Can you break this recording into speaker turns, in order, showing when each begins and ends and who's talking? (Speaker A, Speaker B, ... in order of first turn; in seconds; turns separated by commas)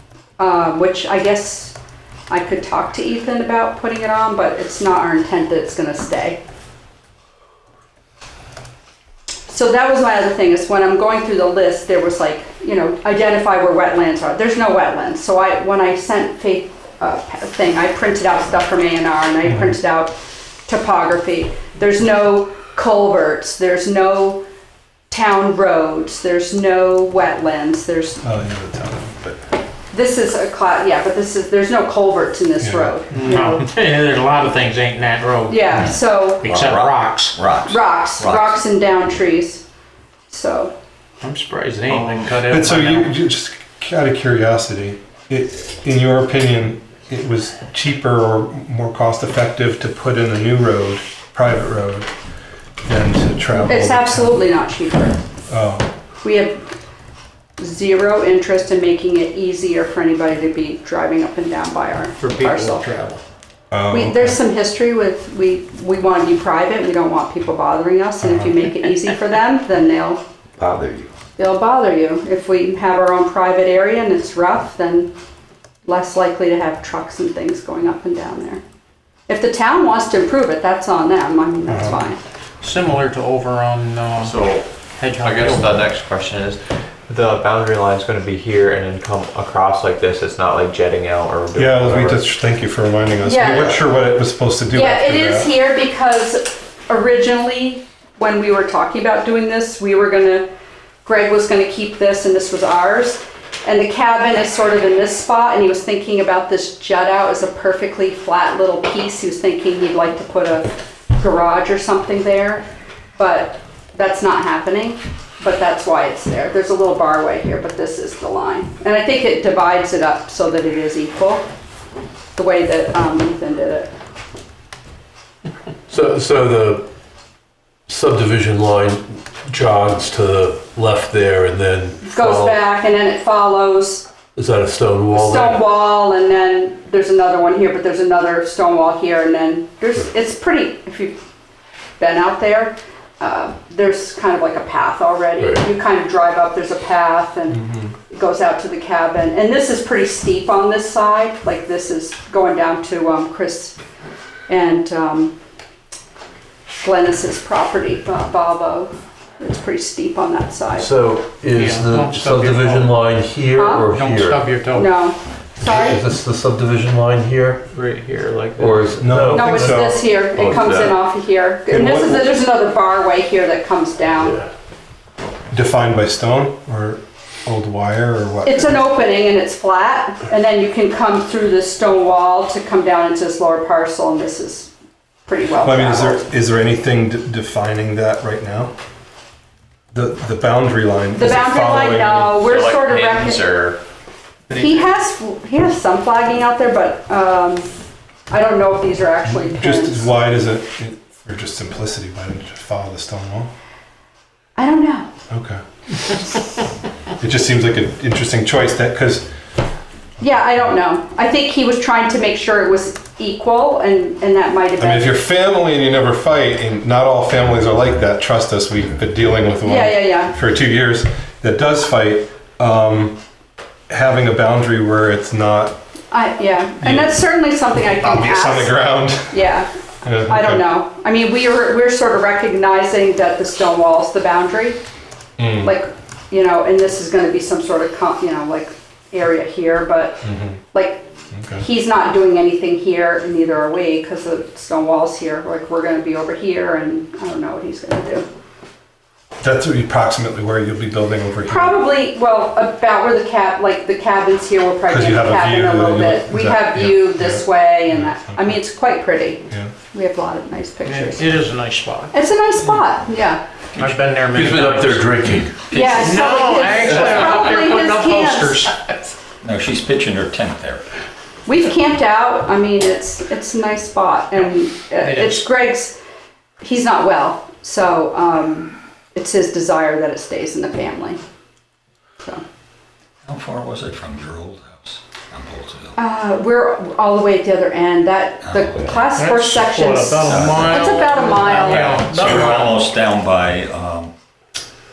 Speaker A: 0.4-1.8, Speaker A: 2.3-6.4, Speaker A: 9.5-20.1, Speaker B: 19.4-19.8, Speaker A: 20.7-24.4, Speaker A: 25.1-28.2, Speaker B: 28.2-29.4, Speaker A: 29.9-33.7, Speaker B: 32.6-33.0, Speaker C: 33.1-37.4, Speaker A: 35.5-36.5, Speaker D: 36.4-38.6, Speaker A: 37.6-39.6, Speaker A: 40.3-40.7, Speaker C: 41.2-43.1, Speaker B: 42.5-52.1, Speaker B: 52.8-54.4, Speaker A: 53.6-55.2, Speaker B: 55.5-55.9, Speaker A: 56.2-56.6, Speaker A: 57.6-63.1, Speaker C: 62.4-62.9, Speaker B: 63.7-64.4, Speaker A: 63.9-70.2, Speaker B: 68.2-68.5, Speaker A: 71.4-75.1, Speaker A: 75.9-78.6, Speaker A: 79.3-82.2, Speaker B: 81.7-82.0, Speaker C: 82.6-84.4, Speaker E: 84.2-84.7, Speaker C: 85.0-85.8, Speaker E: 85.2-92.2, Speaker B: 91.5-95.5, Speaker A: 93.2-93.8, Speaker A: 94.7-100.5, Speaker A: 101.0-112.7, Speaker A: 113.2-121.5, Speaker A: 122.4-123.9, Speaker F: 125.9-126.9, Speaker F: 127.9-132.6, Speaker A: 132.0-134.1, Speaker F: 134.4-135.6, Speaker A: 135.1-141.2, Speaker A: 142.0-153.8, Speaker B: 147.6-147.9, Speaker A: 154.5-155.3, Speaker A: 156.8-160.9, Speaker F: 160.8-164.4, Speaker C: 161.5-163.0, Speaker A: 163.6-163.9, Speaker C: 163.9-165.0, Speaker A: 164.7-166.0, Speaker F: 165.6-167.6, Speaker E: 167.7-168.7, Speaker F: 168.6-169.8, Speaker B: 169.0-170.2, Speaker A: 169.3-174.4, Speaker F: 170.4-170.9, Speaker B: 171.7-172.3, Speaker B: 175.5-178.8, Speaker A: 178.5-184.7, Speaker A: 185.3-186.3, Speaker B: 185.6-188.7, Speaker B: 189.9-192.4, Speaker A: 191.1-193.6, Speaker E: 192.3-193.8, Speaker A: 194.5-197.7, Speaker A: 198.3-200.1, Speaker B: 199.3-203.5, Speaker A: 204.6-205.1, Speaker B: 205.3-206.1, Speaker B: 207.2-209.3, Speaker A: 210.2-215.1, Speaker B: 214.8-223.2, Speaker A: 219.6-220.3, Speaker B: 223.9-225.8, Speaker A: 226.1-228.7, Speaker B: 226.8-227.2, Speaker B: 227.7-229.4, Speaker A: 229.3-229.7, Speaker B: 230.0-230.7, Speaker A: 230.3-234.8, Speaker B: 235.4-235.7, Speaker A: 235.6-248.3, Speaker B: 240.2-240.6, Speaker B: 241.3-241.7, Speaker B: 249.4-251.8, Speaker A: 251.4-261.4, Speaker B: 254.9-258.6, Speaker C: 260.9-262.1, Speaker A: 262.1-263.4, Speaker C: 263.8-265.1, Speaker F: 263.8-265.7, Speaker C: 265.7-269.1, Speaker A: 265.7-268.6, Speaker D: 269.4-270.8, Speaker A: 271.5-276.0, Speaker C: 275.0-275.5, Speaker A: 276.6-281.2, Speaker D: 283.2-286.0, Speaker A: 286.0-292.0, Speaker D: 288.4-289.1, Speaker C: 289.1-292.8, Speaker D: 290.2-294.1